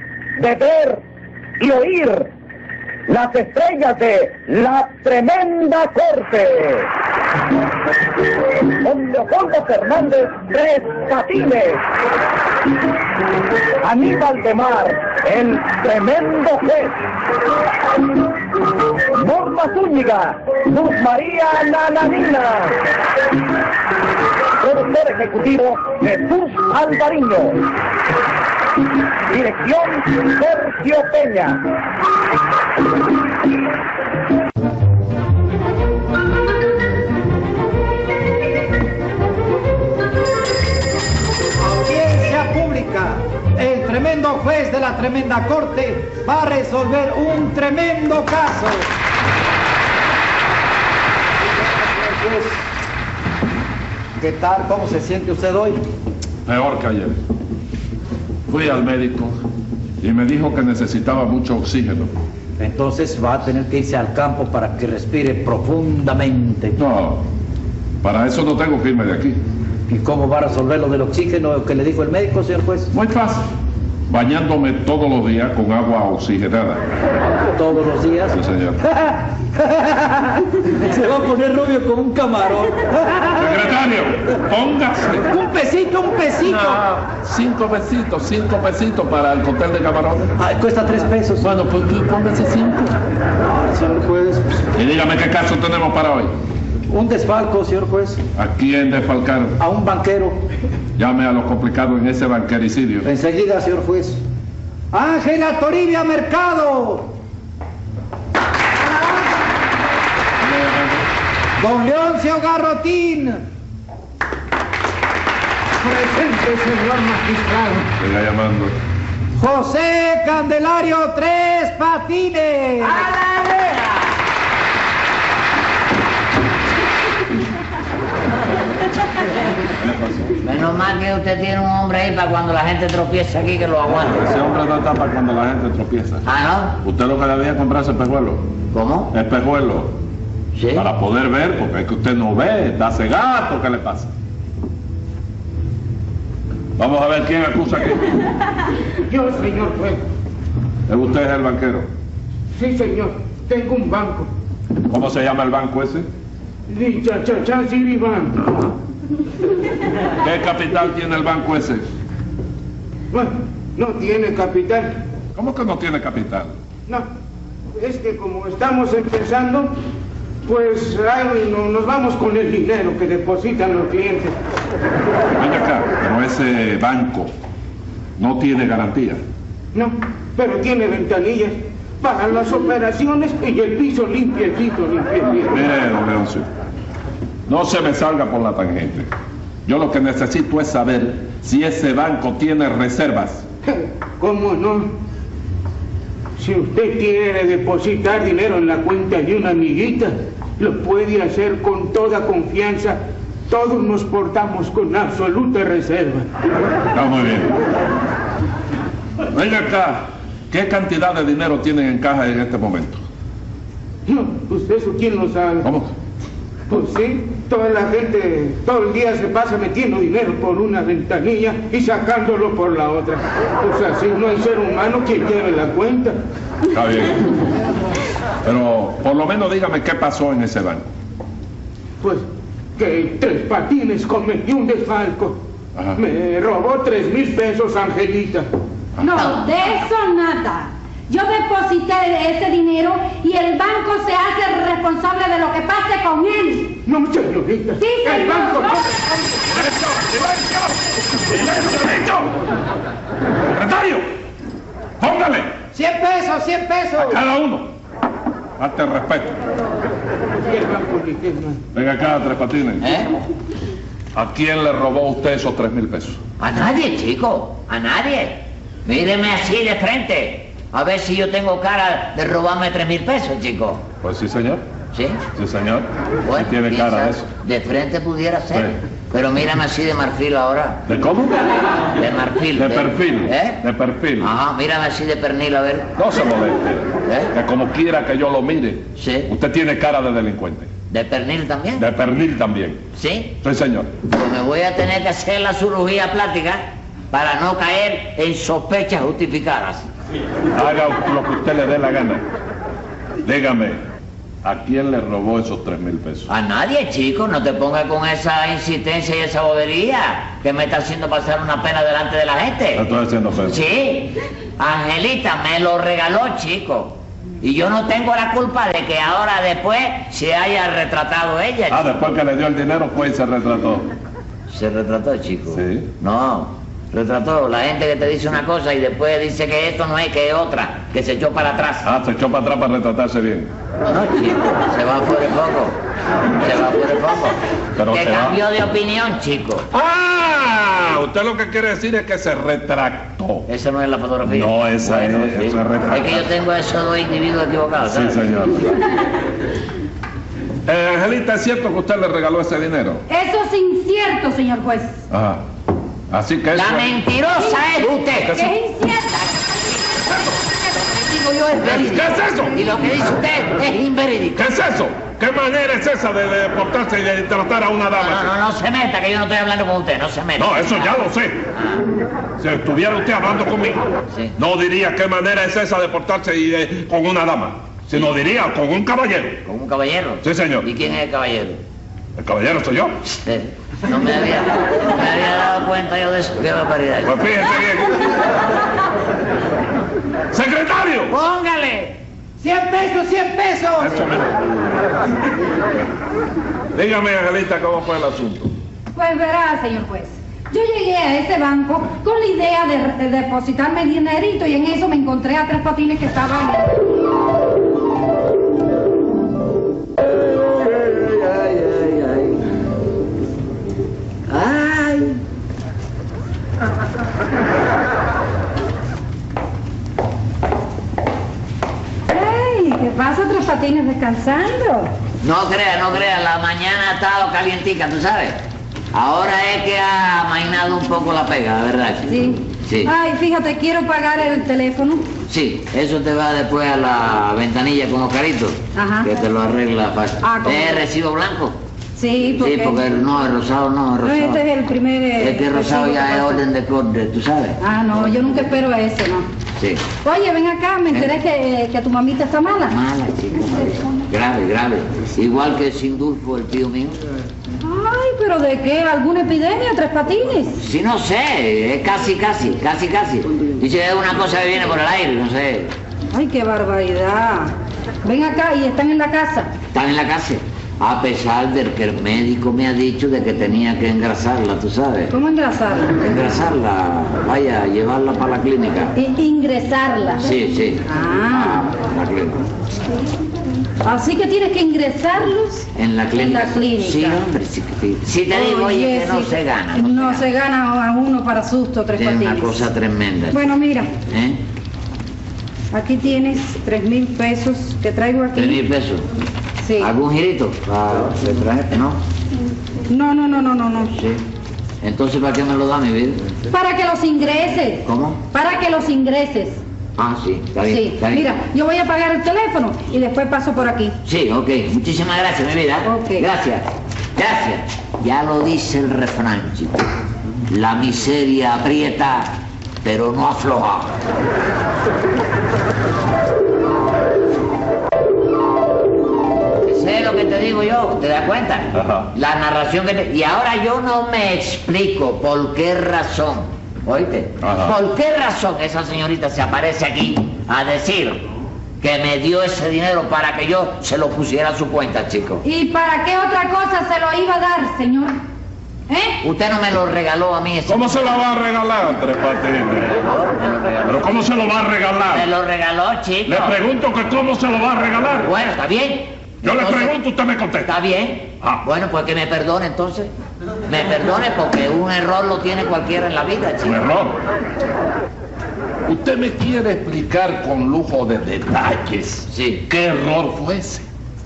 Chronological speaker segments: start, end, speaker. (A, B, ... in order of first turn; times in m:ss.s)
0:00.4-0:01.0 A
0:01.6-0:02.3 A
0:03.1-0:06.9 A
0:08.8-0:11.8 A
0:13.8-0:17.0 A
0:19.2-0:22.8 A
0:24.6-0:27.6 A
0:29.3-0:31.6 A
0:41.6-0:48.9 B
0:51.7-0:52.6 B
0:54.2-0:55.8 B
0:56.5-0:57.2 C
0:58.5-0:59.4 C
1:00.0-1:02.1 C
1:02.6-1:06.8 B
1:06.8-1:07.2 C
1:08.0-1:09.4 C
1:09.9-1:12.9 B
1:12.9-1:13.5 C
1:14.1-1:16.8 C
1:17.5-1:23.4 B
1:18.3-1:18.8 C
1:23.4-1:25.3 C
1:25.3-1:26.8 B
1:26.4-1:30.3 C
1:30.4-1:31.6 B
1:31.4-1:33.0 C
1:33.5-1:34.6 B
1:34.8-1:36.3 C
1:36.9-1:38.2 B
1:38.4-1:39.6 C
1:39.6-1:40.4 B
1:41.0-1:43.1 C
1:43.0-1:44.2 B
1:44.9-1:47.1 B
1:51.6-1:53.4 B
1:55.8-1:57.9 D
1:58.0-1:58.8 C
1:59.4-2:03.1 B
2:03.2-2:03.9 E
2:09.8-2:10.3 C
2:10.4-2:14.2 E
2:14.0-2:16.2 C
2:16.2-2:16.8 E
2:16.8-2:18.4 C
2:18.7-2:19.1 E
2:19.1-2:19.9 C
2:20.6-2:20.9 E
2:20.8-2:24.1 C
2:26.8-2:28.3 C
2:29.1-2:30.0 D
2:30.9-2:31.9 C
2:32.6-2:34.3 D
2:34.9-2:36.1 C
2:36.7-2:38.6 D
2:40.2-2:41.8 C
2:43.1-2:45.0 D
2:45.4-2:46.5 C
2:47.8-2:49.7 D
2:50.4-2:54.4 D
2:55.4-2:57.3 C
2:58.2-2:59.2 C
2:59.7-3:05.5 D
3:05.4-3:06.5 C
3:07.5-3:09.1 C
3:09.7-3:13.5 C
3:13.7-3:14.9 D
3:16.4-3:26.3 D
3:26.9-3:27.6 C
3:29.3-3:33.0 C
3:34.1-3:35.7 D
3:35.6-3:35.9 C
3:36.7-3:46.2 D
3:46.7-3:47.4 C
3:48.4-3:50.9 C
3:52.8-3:55.4 D
3:56.0-3:58.5 D
3:59.0-4:06.8 F
3:59.1-3:59.7 E
4:06.8-4:08.9 D
4:07.8-4:08.8 F
4:09.6-4:12.4 C
4:13.5-4:14.0 C
4:15.0-4:15.5 C
4:15.7-4:17.2 B
4:17.0-4:17.7 C
4:18.6-4:19.4 C
4:20.5-4:21.6 D
4:21.7-4:22.8 C
4:22.8-4:23.1 E
4:24.2-4:26.2 C
4:26.4-4:33.8 E
4:34.0-4:34.6 C
4:34.9-4:35.2 E
4:35.4-4:37.3 C
4:36.2-4:40.8 E
4:40.9-4:41.4 C
4:42.0-4:43.6 E
4:42.6-4:44.3 C
4:44.2-4:45.9 E
4:46.0-4:50.7 C
4:47.0-4:47.3 E
4:49.0-4:49.3 E
4:50.9-4:51.9 E
4:51.8-4:52.8 C
4:53.0-4:53.4 E
4:53.4-4:53.9 C
4:54.1-4:59.9 E
5:00.5-5:02.2 C
5:03.2-5:03.8 C
5:04.4-5:06.3 C
5:06.3-5:12.9 E
5:12.7-5:13.6 C
5:13.4-5:22.0 E
5:21.7-5:23.9 C
5:24.5-5:31.9 E
5:25.5-5:25.9 C
5:31.8-5:33.5 C
5:33.8-5:35.8 E
5:36.4-5:37.4 E
5:37.8-5:38.4 C
5:37.9-5:39.7 E
5:39.7-5:43.5 C
5:43.5-5:48.2 E
5:44.2-5:46.3 C
5:47.9-5:48.8 C
5:50.7-5:53.0 C
5:53.1-5:55.0 F
5:55.1-5:55.4 C
5:56.1-5:56.9 C
5:56.5-5:58.4 E
5:58.2-5:58.6 C
5:58.3-5:59.6 F
6:00.0-6:04.5 E
6:01.6-6:02.6 C
6:04.4-6:08.3 C
6:07.9-6:11.9 E
6:10.4-6:11.4 C
6:12.4-6:19.4 C
6:14.1-6:14.3 E
6:19.4-6:21.6 E
6:20.2-6:20.7 C
6:22.2-6:23.0 C
6:23.2-6:27.4 E
6:27.0-6:28.2 C
6:30.3-6:31.1 C
6:31.1-6:32.0 E
6:32.4-6:34.0 B
6:33.8-6:34.5 C
6:36.7-6:38.5 C
6:38.9-6:46.8 F
6:50.6-6:52.4 E
6:54.3-6:55.2 E
7:02.1-7:04.9 F
7:05.2-7:08.4 E
7:08.9-7:12.9 E
7:12.1-7:15.1 F
7:15.3-7:21.6 E
7:18.8-7:19.2 F
7:20.2-7:20.8 F
7:22.0-7:22.8 F
7:22.4-7:24.4 E
7:24.0-7:26.4 F
7:25.2-7:28.5 E
7:27.6-7:29.3 F
7:29.6-7:29.9 E
7:30.0-7:32.8 F
7:32.7-7:37.0 E
7:37.6-7:40.6 F
7:40.6-7:45.7 E
7:46.1-7:49.5 F
7:49.7-7:55.1 E
7:55.1-7:56.0 F
7:56.0-7:59.0 E
7:59.0-8:00.3 F
8:00.2-8:02.4 E
8:00.9-8:01.7 F
8:03.8-8:07.2 F
8:05.7-8:10.3 E
8:08.3-8:12.7 F
8:12.0-8:13.4 E
8:13.3-8:13.9 F
8:14.1-8:14.4 E
8:15.7-8:18.6 F
8:18.4-8:19.1 E
8:19.6-8:19.9 F
8:19.8-8:22.0 E
8:22.9-8:23.9 F
8:23.9-8:24.2 E
8:24.8-8:26.3 E
8:26.5-8:29.6 F
8:27.8-8:28.2 E
8:30.0-8:31.3 E
8:30.6-8:34.0 F
8:34.0-8:39.8 E
8:35.8-8:36.3 F
8:40.5-8:44.0 E
8:49.6-9:01.2 E
8:51.7-8:52.1 C
8:57.4-8:57.8 C
9:01.8-9:05.4 E
9:05.4-9:08.2 F
9:08.9-9:09.2 F
9:09.2-9:11.1 E
9:10.7-9:13.0 C
9:12.9-9:14.3 E
9:13.9-9:15.3 C
9:15.1-9:16.6 E
9:16.3-9:18.3 C
9:18.2-9:20.0 E
9:19.4-9:20.7 C
9:20.6-9:23.1 E
9:23.7-9:27.0 E
9:26.6-9:27.2 C
9:28.9-9:33.8 C
9:32.3-9:32.6 E